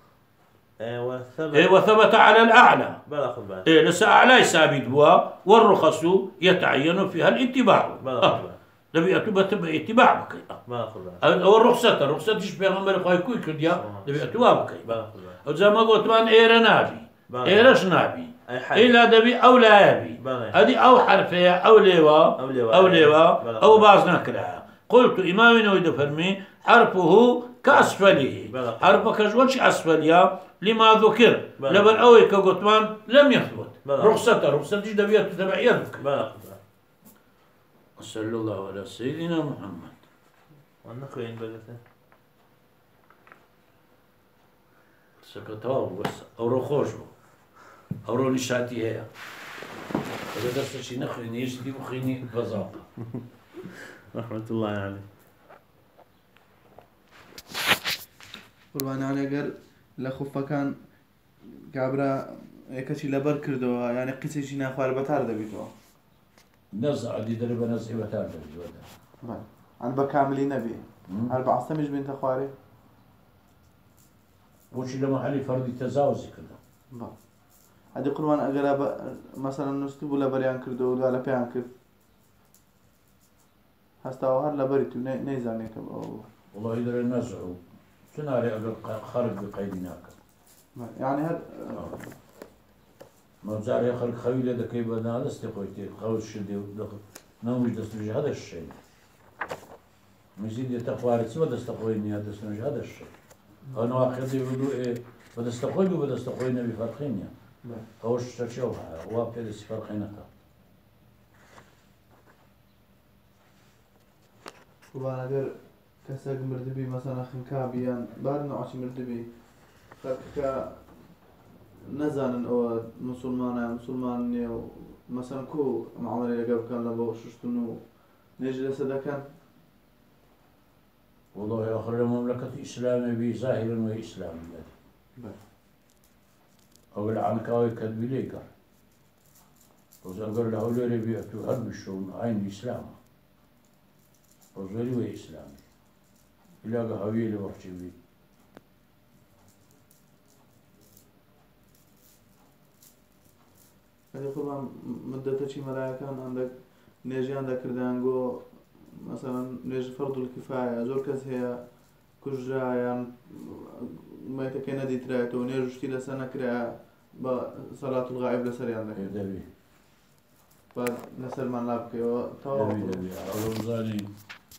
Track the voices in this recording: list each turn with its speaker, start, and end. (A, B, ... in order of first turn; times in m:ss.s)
0:00.8-0:01.8 A
0:01.5-0:03.0 B
0:03.0-0:03.7 A
0:03.6-0:08.4 B
0:08.0-0:08.6 A
0:08.9-0:10.6 B
0:10.6-0:11.2 A
0:11.2-0:36.0 B
0:13.7-0:15.4 A
0:17.3-0:17.8 A
0:18.4-0:19.0 A
0:20.2-0:20.6 A
0:22.4-0:24.0 A
0:27.7-0:29.1 A
0:31.6-0:32.2 A
0:33.8-0:34.4 A
0:36.0-0:36.6 A
0:38.0-0:40.0 B
0:40.8-0:41.8 A
0:45.2-0:47.1 B
0:48.0-0:49.1 B
0:50.3-0:52.8 B
0:53.0-0:55.0 A
0:58.7-1:00.7 C
1:01.7-1:02.1 C
1:02.8-1:05.7 C
1:06.7-1:08.8 B
1:09.2-1:12.5 C
1:11.1-1:11.3 B
1:14.7-1:16.6 B
1:17.9-1:21.7 C
1:24.0-1:26.2 C
1:26.5-1:27.6 B
1:28.1-1:30.2 B
1:30.7-1:32.1 C
1:33.4-1:38.8 B
1:40.4-1:43.1 B
1:43.7-1:47.3 B
1:48.0-1:50.3 B
1:54.9-1:59.4 C
1:59.9-2:00.9 C
2:01.9-2:07.8 C
2:08.4-2:09.2 C
2:11.3-2:14.7 B
2:16.9-2:18.5 B
2:20.0-2:23.0 B
2:24.5-2:25.6 B
2:26.6-2:27.9 B
2:34.1-2:49.2 C
2:48.9-2:49.5 B
2:50.7-2:53.0 C
2:52.5-2:54.1 B